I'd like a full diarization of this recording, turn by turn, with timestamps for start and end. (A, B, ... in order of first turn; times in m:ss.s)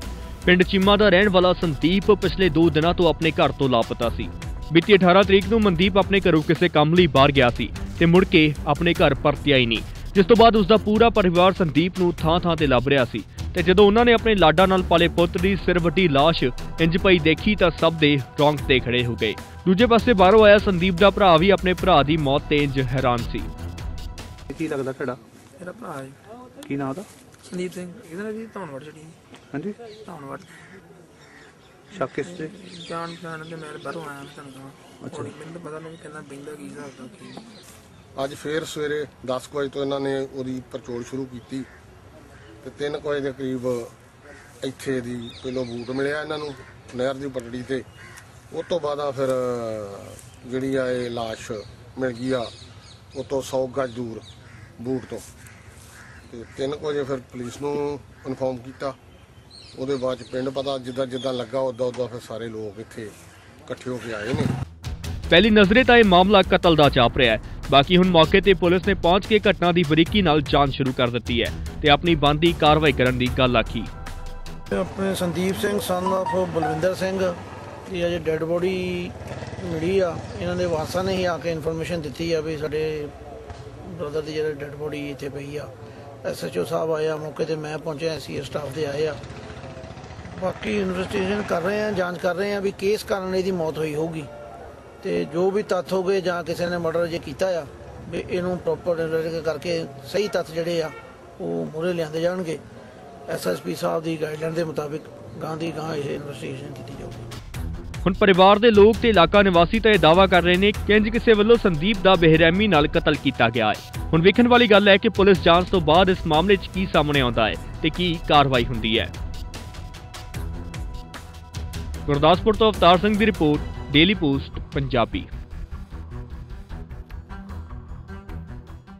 0:00.4-0:23.5 A
0:24.5-0:25.2 B
0:25.6-0:26.2 C
0:26.6-0:27.1 B
0:27.5-0:29.2 C
0:29.5-0:29.8 B
0:29.8-0:30.5 C
0:31.9-0:32.5 B
0:31.9-0:37.4 C
0:38.2-0:41.7 D
0:42.6-0:43.9 D
0:44.6-0:47.8 D
0:48.5-0:52.5 D
0:53.1-0:54.2 D
0:54.8-0:55.2 D
0:56.3-0:59.0 D
0:59.7-1:03.1 D
1:03.7-1:04.5 D
1:05.3-1:13.9 A
1:14.7-1:23.1 E
1:23.8-1:25.7 E
1:26.2-1:29.2 E
1:30.3-1:34.3 E
1:35.0-1:42.6 E
1:43.3-1:47.2 E
1:48.0-1:59.1 A
2:02.1-2:05.3 A